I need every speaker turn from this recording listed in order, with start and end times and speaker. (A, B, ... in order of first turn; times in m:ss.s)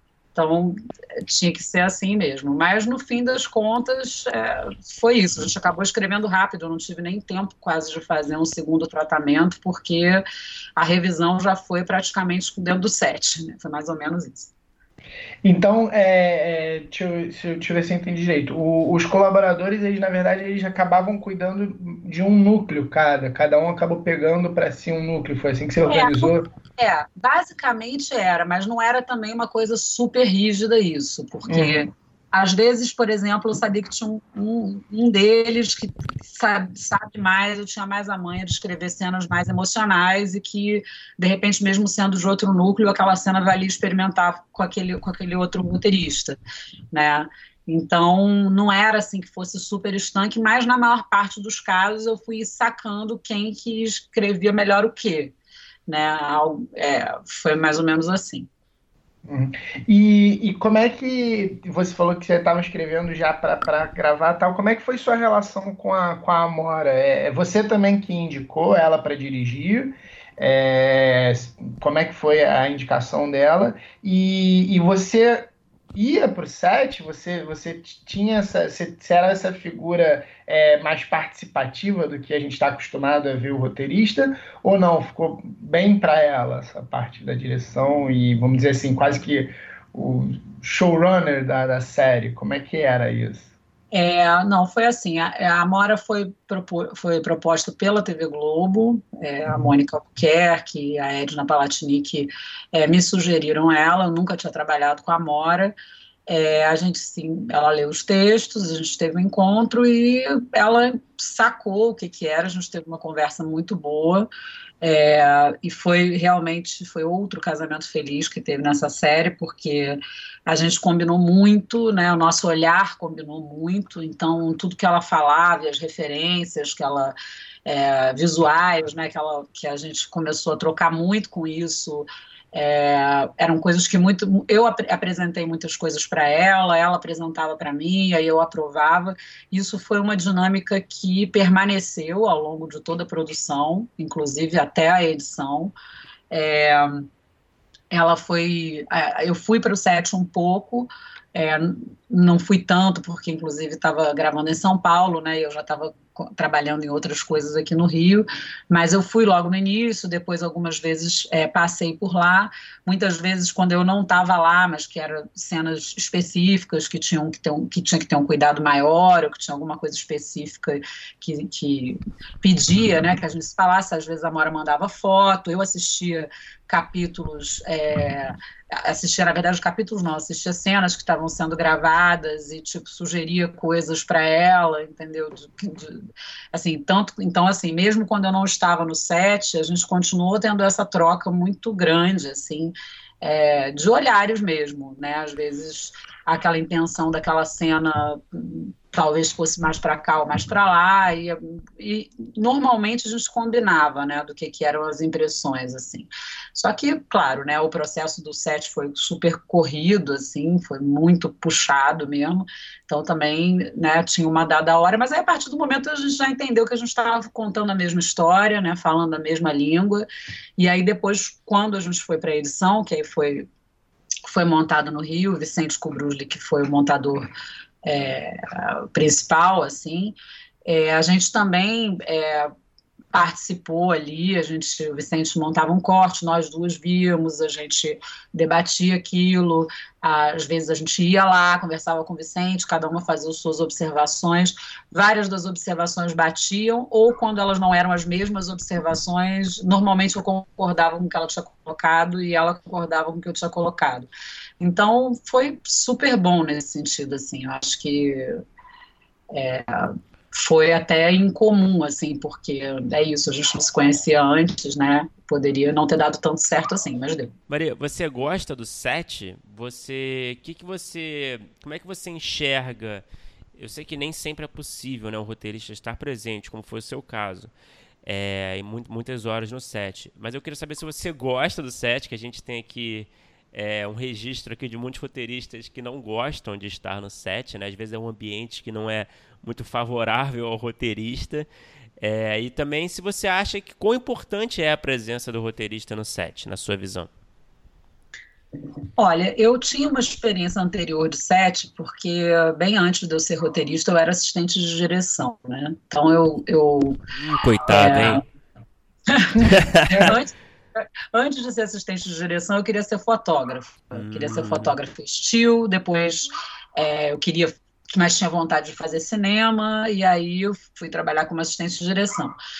0:00.3-0:10.2 A
0:10.8-0:14.5 A
0:15.4-0:26.5 B
0:25.9-0:46.4 A
0:31.5-0:31.8 B
0:46.9-0:55.3 A
0:55.9-0:58.5 A
0:59.2-1:33.5 B
1:33.9-1:45.7 A
1:46.3-1:54.3 A
1:54.8-2:07.1 A
2:07.6-2:25.7 A
2:26.3-2:27.1 A
2:27.9-3:40.1 A
3:40.6-3:43.5 A
3:44.2-3:47.3 A
3:47.8-3:52.5 A
3:53.1-4:14.1 A
4:14.6-4:18.4 A
4:19.3-4:27.3 A
4:27.5-4:33.0 C
4:33.6-4:37.5 C
4:38.0-4:51.5 C
4:52.0-4:57.1 C
4:59.0-5:07.0 A
5:07.1-5:08.2 C
5:07.7-5:08.2 A
5:09.1-5:22.4 A
5:09.4-5:10.1 C
5:13.9-5:14.7 C